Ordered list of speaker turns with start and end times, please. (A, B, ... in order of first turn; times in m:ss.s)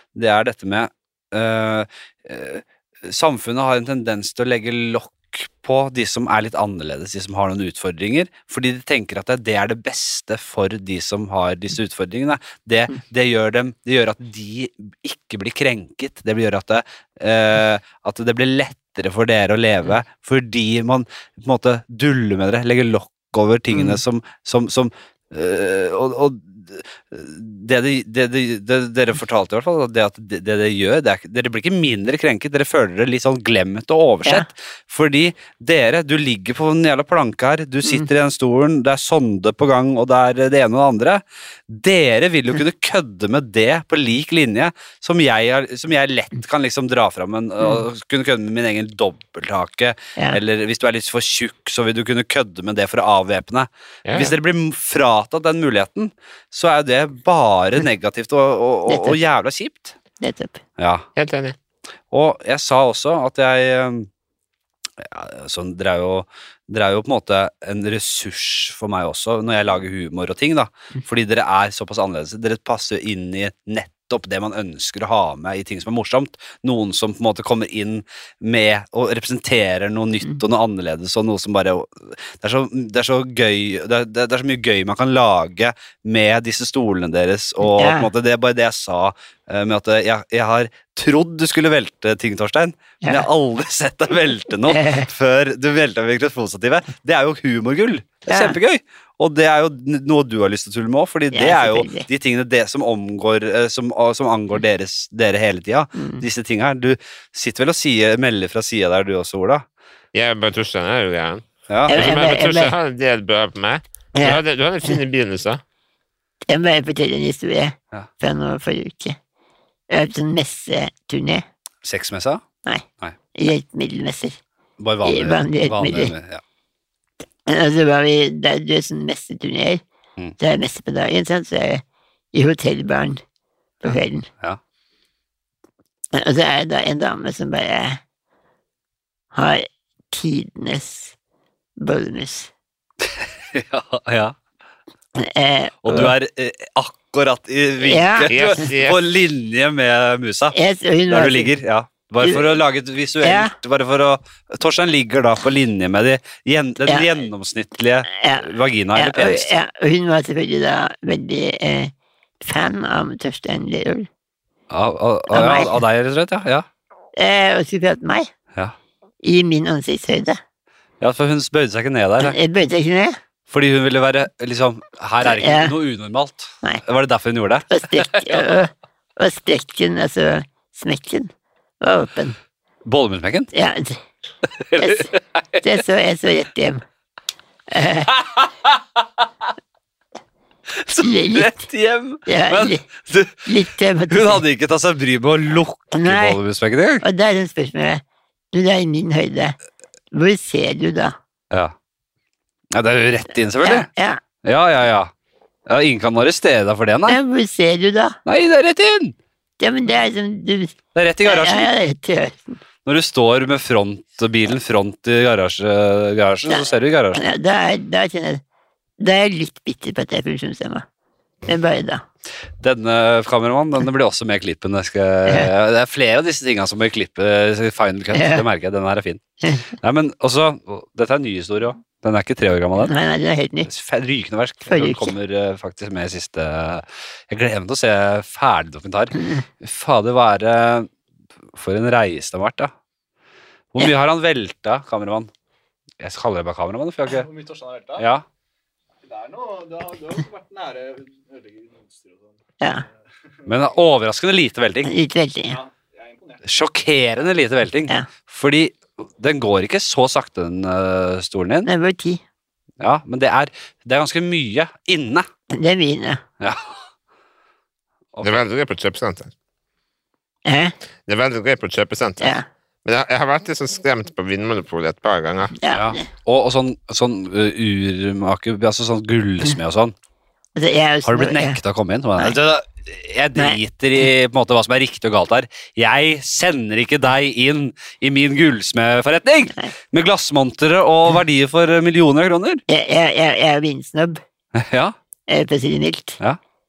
0:00.1-0:59.9 A
0:23.7-0:24.0 B
0:54.0-0:54.3 C
0:58.9-0:59.2 B
1:00.2-1:00.6 B
1:00.8-1:01.0 A
1:01.2-1:01.6 C
1:02.1-1:04.1 A
1:05.0-1:49.6 A
1:27.6-1:28.1 B
1:34.7-1:35.1 B
1:38.3-1:38.6 B
1:41.3-1:42.1 B
1:45.9-1:46.2 B
1:50.1-1:55.6 C
1:51.7-1:52.0 A
1:51.9-1:52.7 B
1:54.1-1:54.9 B
1:56.5-1:59.2 B
1:59.9-2:01.4 B
2:01.8-2:02.4 A
2:03.3-2:04.4 B
2:04.8-2:06.4 A
2:05.0-2:06.1 B
2:07.4-2:09.8 B
2:10.4-2:13.2 B
2:13.8-2:14.3 B
2:16.1-2:18.0 B
2:19.3-2:21.1 B
2:21.8-2:22.5 B
2:23.0-2:24.4 A
2:25.2-2:26.1 B
2:25.8-2:30.6 A
2:27.8-2:28.6 B
2:28.2-2:29.0 C
2:30.5-2:31.5 B
2:31.1-2:39.5 A
2:32.2-2:32.6 B
2:33.2-2:33.5 B
2:36.8-2:37.2 B
2:38.1-2:44.1 B
2:44.7-2:46.6 A
2:45.3-2:45.8 B
2:47.1-2:48.3 B
2:49.2-2:50.4 B
2:51.0-2:52.4 A
2:52.2-2:53.2 B
2:53.5-2:58.5 A
2:55.2-2:55.7 B
2:57.7-3:01.3 B
3:01.8-3:02.4 B
3:02.8-3:03.5 A
3:03.5-3:04.0 B
3:04.5-3:05.7 A
3:04.8-3:05.1 B
3:05.6-3:06.8 B
3:07.7-3:08.1 B
3:08.1-3:08.8 A
3:10.7-3:13.5 A
3:11.0-3:11.6 B
3:12.2-3:12.8 B
3:13.4-3:14.4 B
3:14.1-3:17.0 A
3:15.9-3:16.4 B
3:17.0-3:19.6 B
3:20.1-3:21.1 B
3:22.7-3:23.9 A
3:23.6-3:24.2 B
3:24.4-3:25.1 A
3:25.7-3:27.2 A
3:27.1-3:28.2 B
3:28.2-3:29.2 A
3:29.6-3:32.6 B
3:30.9-3:31.7 A
3:32.8-3:37.2 A
3:36.5-3:38.4 B
3:39.0-3:40.8 B
3:41.4-3:42.0 B
3:42.6-3:53.0 A
3:48.1-3:48.4 B
3:52.8-3:53.7 B
3:53.6-4:00.9 A
3:54.7-3:55.1 B
4:01.5-4:02.7 A
4:03.7-4:05.3 A
4:06.0-4:07.3 A
4:07.1-4:08.1 D
4:08.0-4:08.2 A
4:09.0-4:13.5 D
4:13.5-4:14.9 A
4:14.8-4:15.6 B
4:15.5-4:16.4 D
4:16.4-4:21.7 A
4:21.6-4:22.2 B
4:22.8-4:25.2 A
4:25.5-4:26.2 B
4:26.4-4:26.8 A
4:28.2-4:29.3 C
4:30.4-4:30.7 B
4:31.1-4:35.5 C
4:32.2-4:32.4 B
4:35.6-4:36.0 B
4:35.7-4:39.9 A
4:40.5-4:41.6 B
4:41.0-4:52.6 A
4:52.7-4:54.2 B
4:54.5-4:54.9 A
4:55.3-4:56.2 B